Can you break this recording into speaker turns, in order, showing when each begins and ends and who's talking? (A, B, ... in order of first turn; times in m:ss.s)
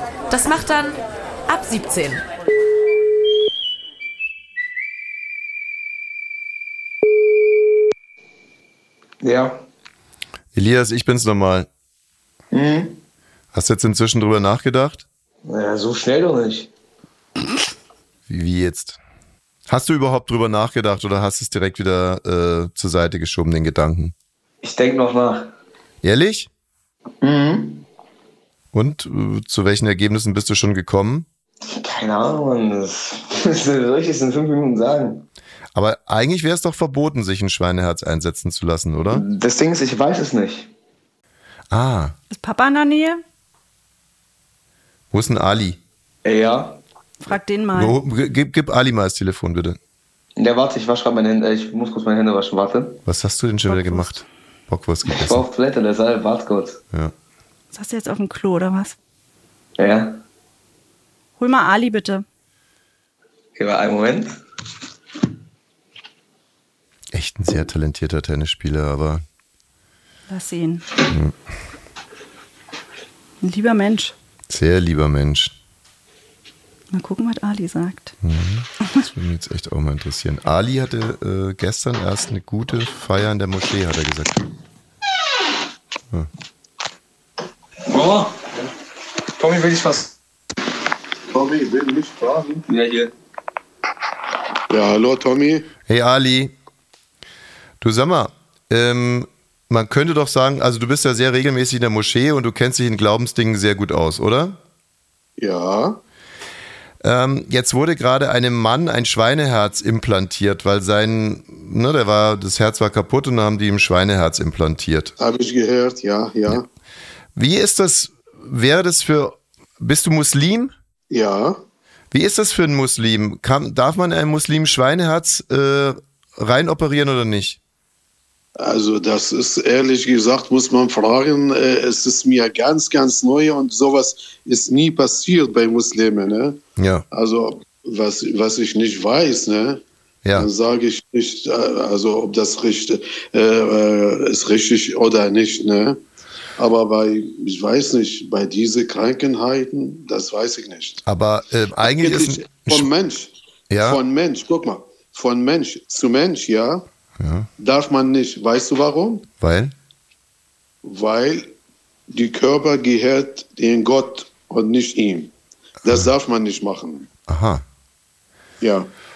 0:00.3-0:02.2 A
0:09.2-0:09.6 B
0:10.5-0:11.7 C
0:12.5-0:13.0 B
0:13.5-0:15.0 C
0:15.4-0:16.7 B
0:18.3-0:19.0 C
0:19.7-0:24.1 C
0:24.6-0:25.5 B
0:26.0-0:26.5 C
0:27.2-0:27.8 B
0:28.7-0:31.3 C
0:31.6-0:35.3 B
0:35.8-0:39.2 C
0:39.1-0:40.7 B
0:41.7-0:42.2 C
0:42.3-0:43.2 D
0:45.1-0:45.8 C
0:46.2-0:46.8 B
0:47.2-0:48.0 D
0:47.8-0:49.8 C
0:50.4-0:53.0 B
0:53.1-0:55.4 C
0:53.7-0:54.2 D
0:55.1-0:56.8 B
0:57.7-0:59.0 D
0:59.8-1:00.2 B
1:01.4-1:02.2 D
1:03.6-1:04.4 B
1:07.1-1:09.2 C
1:10.3-1:10.8 D
1:11.1-1:11.3 C
1:13.4-1:14.1 D
1:14.5-1:15.6 C
1:16.9-1:18.2 D
1:18.2-1:24.4 C
1:27.9-1:28.5 B
1:29.4-1:30.1 B
1:31.3-1:32.6 E
1:32.7-1:33.1 B
1:34.7-1:35.7 E
1:35.9-1:36.5 C
1:37.8-1:44.6 C
1:45.4-1:46.0 E
1:47.0-1:55.1 C
1:55.2-1:56.7 E
1:57.4-2:00.7 C
2:01.1-2:01.6 E
2:02.1-2:07.6 C
2:08.6-2:16.6 E
2:16.8-2:17.1 C
2:17.1-2:19.8 E
2:20.2-2:20.5 C
2:20.4-2:26.0 E
2:26.6-2:31.0 E
2:31.1-2:32.9 C
2:31.8-2:33.3 E
2:33.7-2:34.0 C
2:33.8-2:36.8 E
2:37.2-2:37.5 C
2:37.6-2:39.3 E
2:39.4-2:39.7 C
2:40.8-2:41.5 E
2:42.1-2:45.3 E
2:45.8-2:47.1 E
2:47.3-2:47.6 C
2:48.6-2:48.9 E